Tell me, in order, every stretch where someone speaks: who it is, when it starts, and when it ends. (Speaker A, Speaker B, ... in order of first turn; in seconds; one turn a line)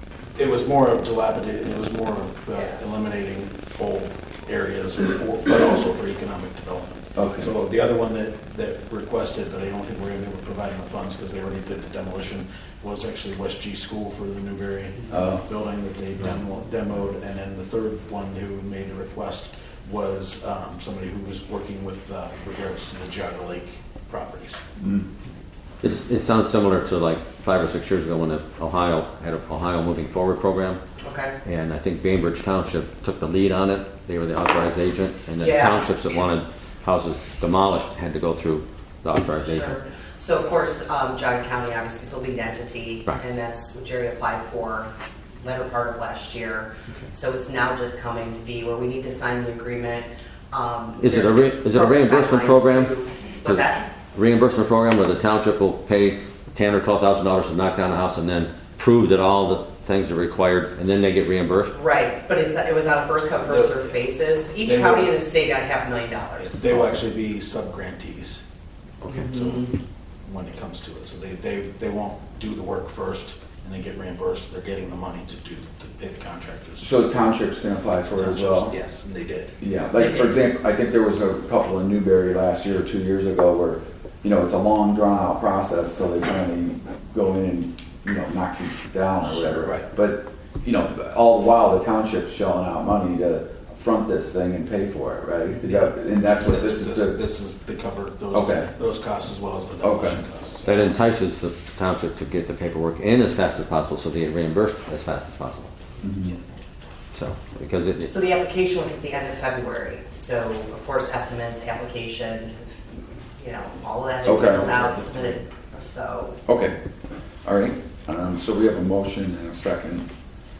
Speaker A: 0.3-24.6
Speaker B: 7.2-7.5
Speaker B: 15.1-15.4
Speaker B: 24.8-25.1
Speaker C: 25.8-30.8
Speaker D: 31.0-31.4
Speaker C: 31.4-39.8
Speaker D: 35.4-36.0
Speaker D: 39.4-53.9
Speaker C: 51.0-52.9
Speaker C: 53.4-61.7
Speaker D: 61.7-66.9
Speaker A: 63.5-63.8
Speaker A: 64.7-65.2
Speaker A: 66.3-68.4
Speaker A: 69.0-76.9
Speaker B: 76.8-78.8
Speaker A: 78.2-80.1
Speaker B: 79.6-97.2
Speaker A: 89.4-89.9
Speaker A: 95.6-100.7
Speaker B: 98.3-98.7
Speaker B: 99.8-100.2
Speaker C: 100.6-105.7
Speaker B: 106.0-106.3
Speaker C: 107.1-108.1
Speaker D: 108.1-112.8
Speaker D: 113.3-116.4
Speaker B: 114.2-115.3
Speaker B: 116.5-116.8
Speaker B: 117.5-120.1